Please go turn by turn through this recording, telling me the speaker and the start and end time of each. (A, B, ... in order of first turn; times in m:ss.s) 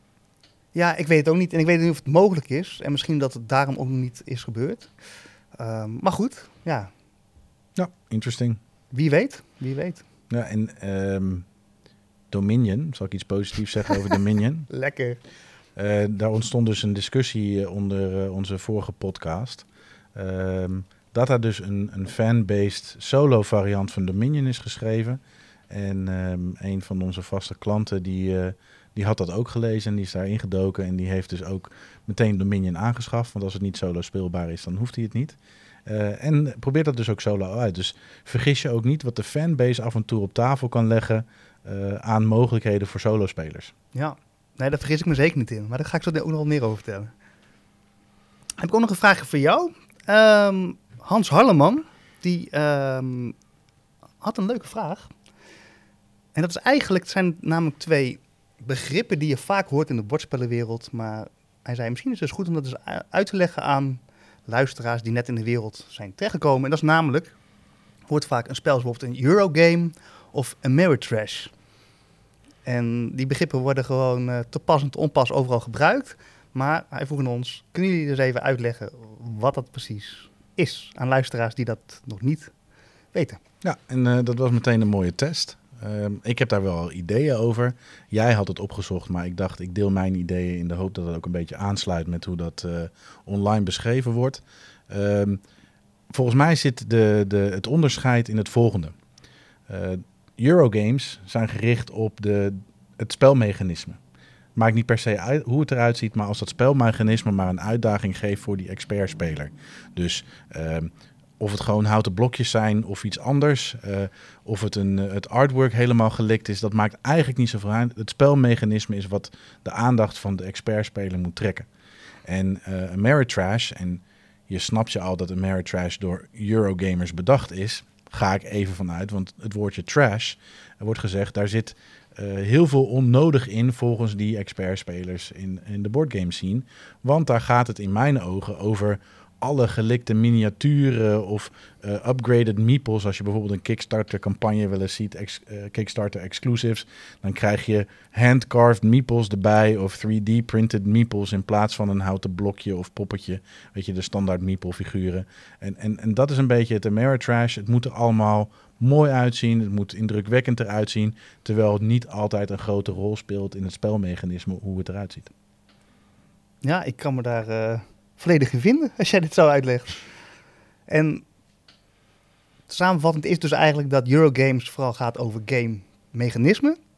0:00.7-0:04.9 A
0:05.6-0:06.9 A
0:07.8-0:08.6 B
0:08.9-0:10.0 A
0:10.3-0:11.4 B
0:12.3-0:14.7 B
0:14.7-0:15.2 A
0:15.8-0:43.7 B
0:43.9-0:47.1 A
0:48.6-0:53.3 A
0:54.2-0:55.1 A
0:56.3-1:07.4 A
1:08.1-1:11.5 A
1:12.6-1:22.5 A
1:23.1-1:23.4 A
1:23.6-1:35.4 B
1:36.1-1:38.9 B
1:39.7-1:44.0 B
1:44.6-2:01.7 B
2:02.2-2:45.3 B
2:46.6-2:50.0 A
2:50.9-2:51.2 A
2:52.7-2:56.8 A